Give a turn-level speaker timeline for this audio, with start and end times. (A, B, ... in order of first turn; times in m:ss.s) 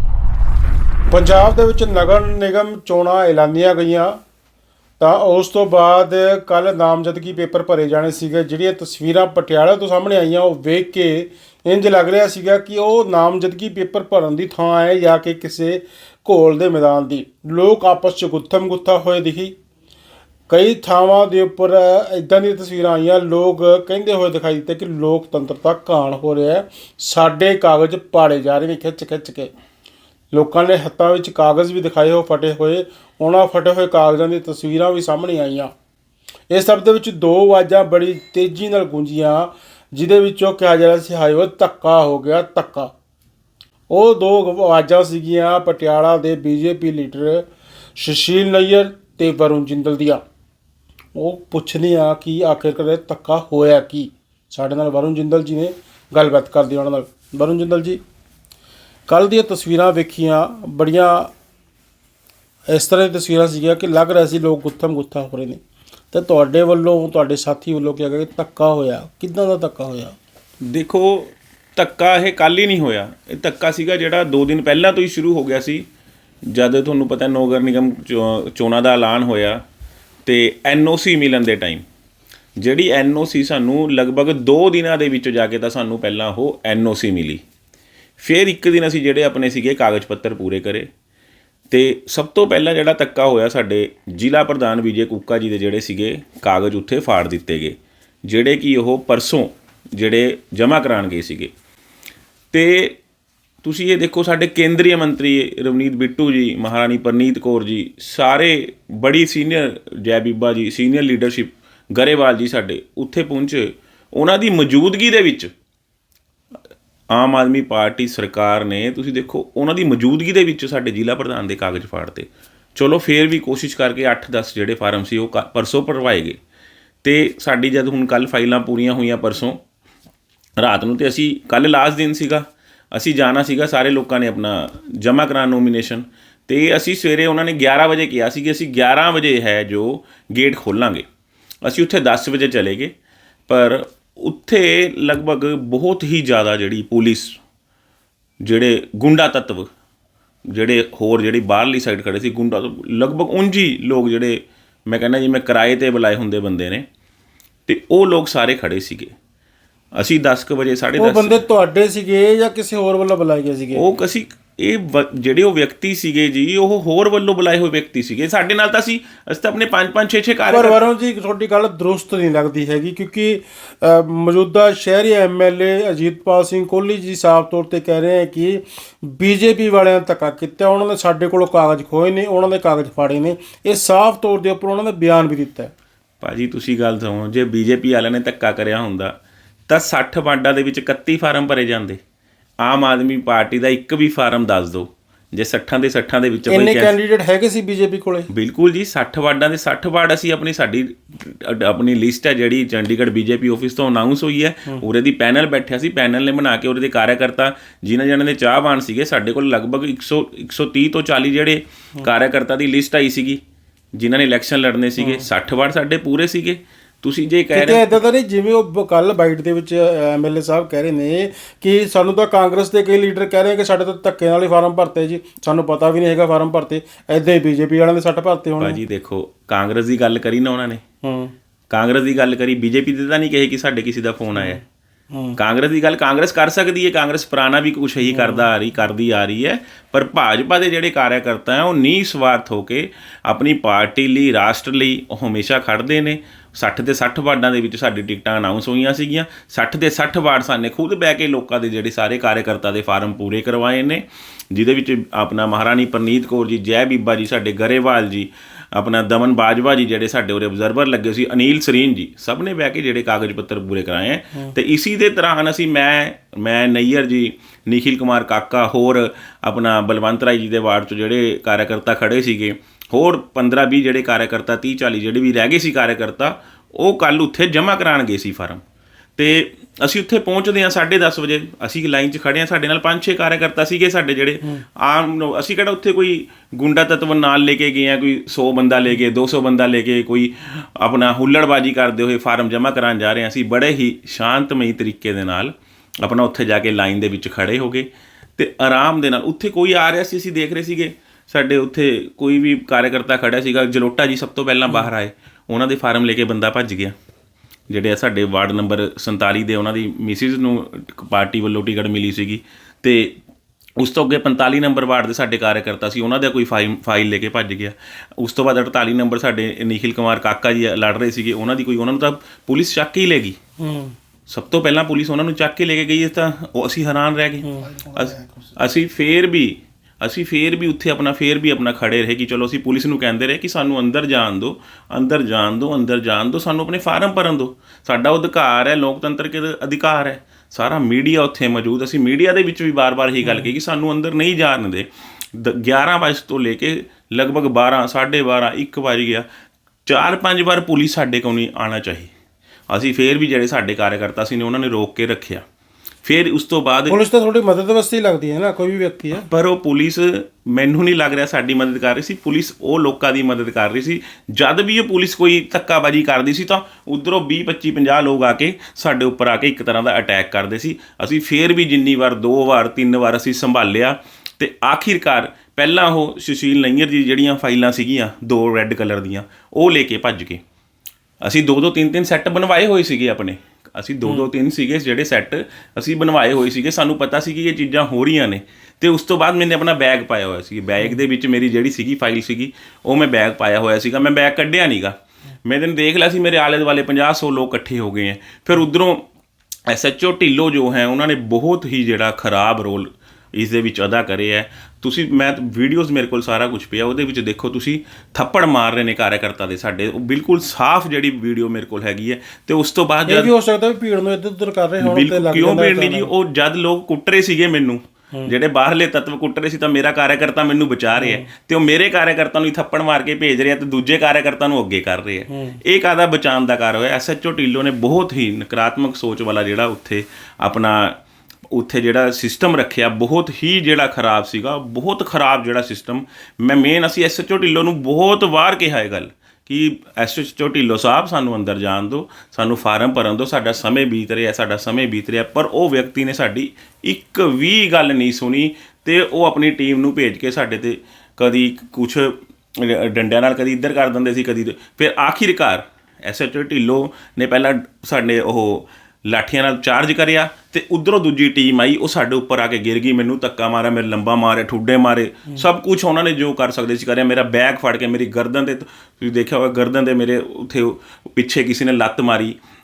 0:01.1-0:04.2 A
0:05.0-0:19.6 A
0:20.5-0:29.5 A
0:30.3-0:35.7 A
0:36.5-0:42.9 A
0:43.9-0:50.2 A
0:51.1-0:58.0 A
0:59.1-1:01.3 A
1:02.7-1:05.6 A
1:06.1-1:10.2 A
1:10.6-1:15.8 B
1:16.5-1:19.6 B
1:20.2-1:21.8 B
1:22.6-1:27.4 B
1:28.2-1:30.9 B
1:31.7-1:41.5 B
1:42.5-1:43.0 B
1:43.6-1:55.5 B
1:57.1-2:06.4 B
2:07.0-2:09.6 B
2:10.6-2:21.0 B
2:21.6-2:22.9 B
2:23.5-2:27.4 B
2:28.4-2:29.7 B
2:30.5-2:36.8 B
2:37.7-2:39.1 B
2:40.0-2:41.4 B
2:41.0-2:43.8 A
2:43.7-2:50.8 B
2:50.5-3:05.7 A
3:06.2-3:09.2 B
3:09.7-3:12.0 B
3:12.6-3:17.0 B
3:16.5-3:18.3 A
3:18.3-3:33.4 B
3:34.0-3:38.0 B
3:37.5-3:48.8 A
3:48.6-3:50.8 B
3:51.0-3:51.3 A
3:51.7-3:54.6 B
3:55.4-4:38.6 B
3:58.1-3:58.5 A
4:39.2-5:06.9 B
5:07.7-5:13.2 B
5:13.8-5:23.4 B
5:23.6-5:23.9 A
5:24.3-5:49.2 B
5:27.4-5:28.5 A
5:43.2-5:43.5 A
5:49.8-5:52.1 B
5:52.7-5:55.4 B
5:56.0-5:57.0 B
5:56.9-5:59.2 A
5:59.1-6:20.4 B
6:21.2-6:39.0 B
6:39.7-6:53.3 B
6:53.1-6:56.1 A
6:54.8-7:11.0 B
7:01.0-7:01.2 A
7:05.3-7:05.6 A
7:11.5-7:52.4 B